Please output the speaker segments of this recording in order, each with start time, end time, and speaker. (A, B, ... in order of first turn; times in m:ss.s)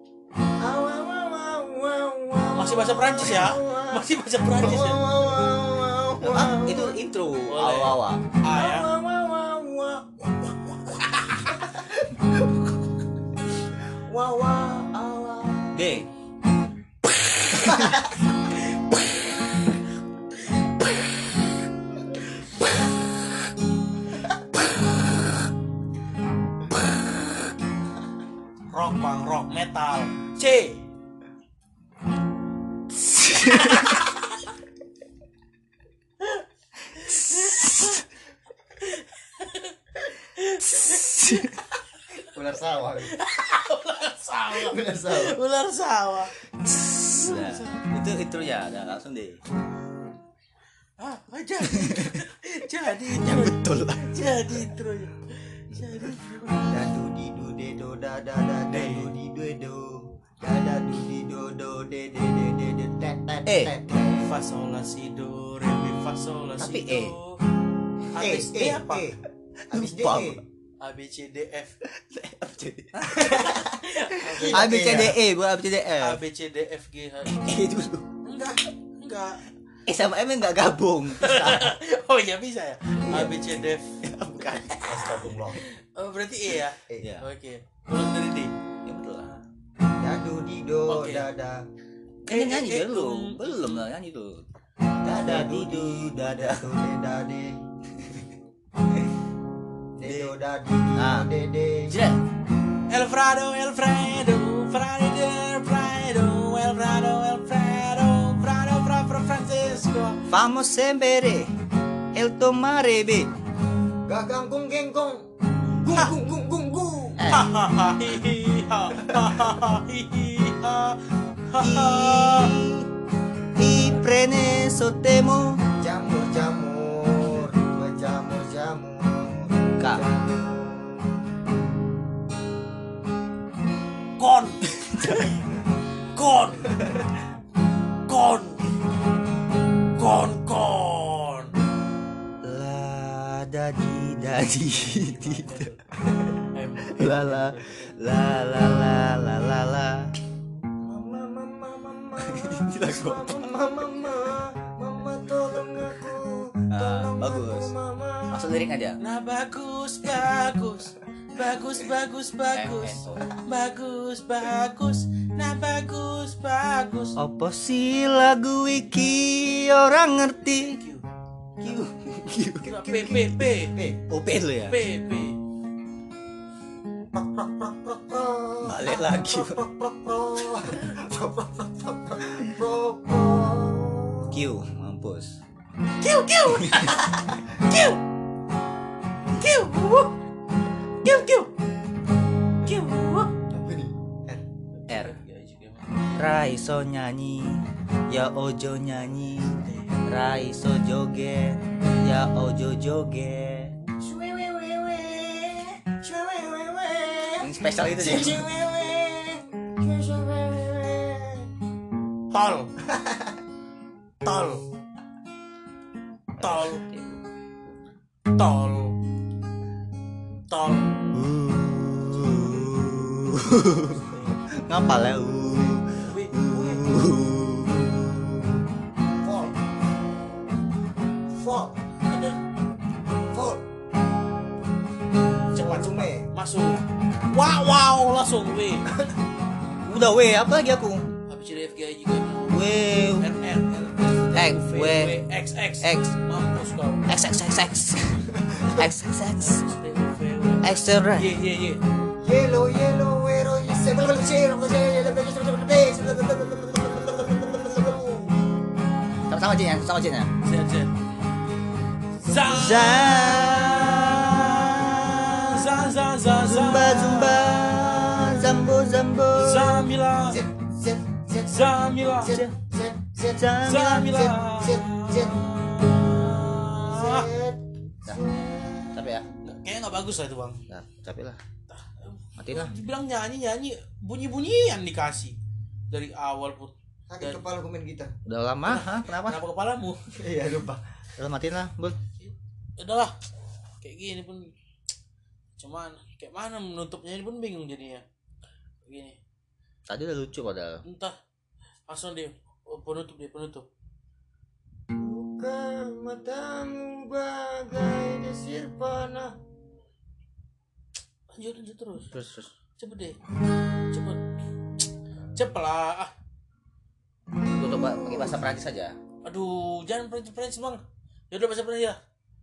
0:00.6-0:07.0 A
0:02.5-0:05.0 B
0:06.2-0:08.2 C
0:07.5-0:08.9 B
0:08.5-0:12.2 A
0:14.1-0:15.8 A
0:15.7-0:16.1 C
0:17.6-0:17.9 C
0:17.6-0:18.1 A
0:28.7-0:30.8 B
0:33.4-0:33.8 C
0:33.4-0:34.1 B
0:36.2-0:38.0 B
0:37.3-0:38.0 C
0:38.8-0:42.3 B
0:40.8-0:41.6 C
0:42.2-0:43.2 A
0:43.1-0:46.3 B
0:44.6-0:45.4 A
0:46.6-0:49.4 C
0:47.1-0:47.9 B
0:51.0-0:56.8 B
0:51.7-0:52.2 C
0:53.1-0:54.6 C
0:56.7-1:04.4 A
0:58.7-0:59.1 B
1:03.4-1:03.8 C
1:04.2-1:07.4 B
1:06.6-1:07.1 C
1:08.1-1:09.1 B
1:08.2-1:09.2 A
1:09.7-1:10.4 C
1:09.7-1:10.4 A
1:10.8-1:11.8 B
1:11.8-1:13.6 C
1:13.1-1:15.2 A
1:13.8-1:14.9 B
1:14.4-1:16.2 C
1:16.0-1:17.6 B
1:17.3-1:18.1 C
1:18.2-1:19.4 B
1:19.9-1:21.8 C
1:21.2-1:24.0 B
1:23.1-1:23.5 A
1:24.0-1:25.3 C
1:24.9-1:25.6 A
1:25.6-1:28.5 B
1:27.0-1:27.3 C
1:28.8-1:29.4 C
1:30.0-1:31.6 A
1:30.9-1:31.3 B
1:32.2-1:34.4 C
1:32.3-1:33.8 B
1:35.0-1:37.6 A
1:35.0-1:36.7 C
1:40.0-1:42.0 A
1:40.0-1:40.3 C
1:41.0-1:41.3 C
1:41.9-1:42.2 B
1:42.9-1:50.2 B
1:50.3-1:51.5 C
1:52.1-1:53.3 C
1:54.0-1:57.2 A
1:57.2-1:57.6 C
1:57.3-2:02.6 B
2:01.6-2:02.9 C
2:03.6-2:05.6 C
2:05.8-2:11.1 A
2:09.8-2:10.1 C
2:14.2-2:15.3 B
2:14.7-2:15.4 C
2:16.1-2:16.9 B
2:18.1-2:18.6 B
2:20.0-2:21.5 B
2:22.4-2:25.7 C
2:24.7-2:25.8 B
2:26.5-2:28.0 B
2:26.8-2:30.1 C
2:30.8-2:38.5 A
2:32.2-2:33.4 C
2:36.7-2:37.7 C
2:38.3-2:39.0 C
2:39.0-2:47.2 B
2:42.5-2:43.3 C
2:47.2-2:50.8 C
2:50.6-2:51.0 B
2:51.6-2:53.2 C
2:52.6-2:53.8 B
2:52.9-2:54.0 A
2:54.1-2:54.8 C
2:54.7-2:55.4 B
2:57.1-3:04.4 A
2:58.6-2:59.6 C
3:04.3-3:05.4 C
3:06.0-3:07.1 B
3:06.5-3:06.8 C
3:07.7-3:08.0 B
3:09.3-3:10.1 B
3:11.0-3:11.5 B
3:12.6-3:13.3 B
3:13.5-3:14.4 A
3:14.9-3:16.2 B
3:14.9-3:15.2 C
3:16.2-3:23.8 C
3:19.6-3:19.9 B
3:24.0-3:31.5 A
3:27.4-3:28.5 C
3:32.3-3:32.7 B
3:32.9-3:33.2 A
3:34.2-3:34.6 B
3:36.4-3:37.2 C
3:36.4-3:36.8 B
3:38.4-3:39.0 B
3:40.5-3:41.0 B
3:41.1-3:48.6 C
3:43.9-3:44.4 B
3:46.0-3:46.8 B
3:49.2-3:49.7 A
3:51.3-3:51.8 A
3:52.1-3:52.4 B
3:53.3-3:53.6 A
3:55.5-3:56.3 A
3:55.5-3:59.0 B
3:59.8-4:01.1 C
4:01.3-4:07.2 B
4:02.5-4:03.3 C
4:04.3-4:05.2 C
4:05.8-4:06.1 C
4:07.1-4:09.6 C
4:08.3-4:08.8 A
4:09.4-4:11.8 B
4:10.6-4:11.4 C
4:12.2-4:18.3 A
4:19.3-4:20.3 C
4:20.4-4:20.9 B
4:22.2-4:28.5 B
4:22.4-4:25.4 C
4:26.3-4:29.9 C
4:29.3-4:30.4 B
4:30.3-4:35.6 A
4:31.4-4:32.4 B
4:32.2-4:32.6 C
4:33.3-4:34.2 C
4:33.6-4:37.3 B
4:36.9-4:38.9 A
4:38.9-4:39.3 C
4:39.4-4:40.6 B
4:40.7-4:41.4 C
4:41.7-4:45.4 B
4:42.4-4:42.7 C
4:45.9-4:47.4 B
4:47.1-4:48.1 A
4:48.3-4:49.4 C
4:48.6-4:50.1 B
4:50.2-4:50.8 A
4:51.2-4:52.0 C
4:52.2-4:53.1 B
4:53.8-4:54.5 B
4:55.6-4:58.0 B
4:58.8-4:59.2 B
4:59.9-5:00.8 C
5:00.8-5:01.2 B
5:01.9-5:03.7 B
5:04.9-5:09.4 A
5:11.3-5:12.1 B
5:12.1-5:12.5 C
5:12.8-5:13.2 B
5:13.9-5:14.2 B
5:15.4-5:16.1 B
5:17.6-5:19.0 C
5:19.2-5:22.0 B